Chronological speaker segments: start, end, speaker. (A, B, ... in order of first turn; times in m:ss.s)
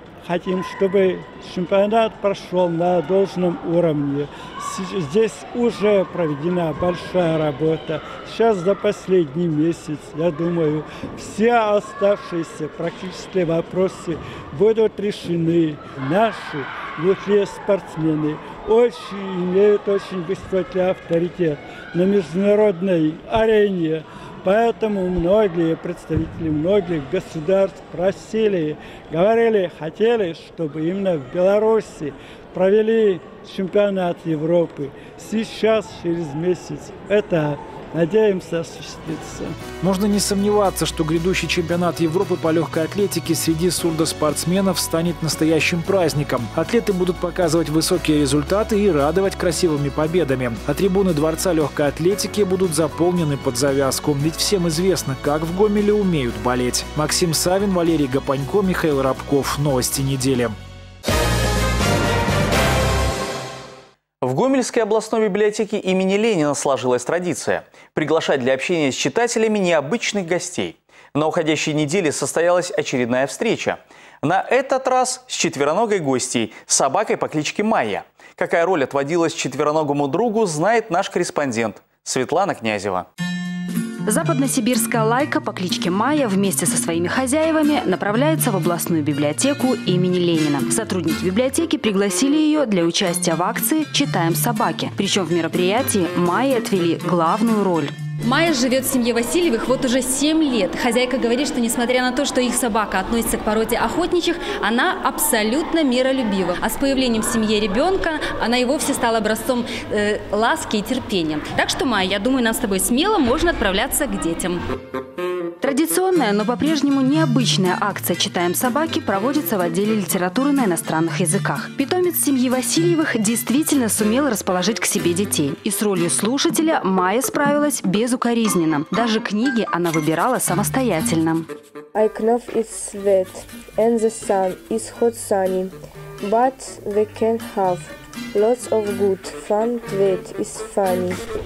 0:00.2-0:39.6 A
0:39.8-1:00.6 B
1:04.2-1:23.0 C
1:24.1-1:37.9 D
1:38.2-1:54.6 E
1:55.6-2:11.5 D
2:11.9-2:21.2 F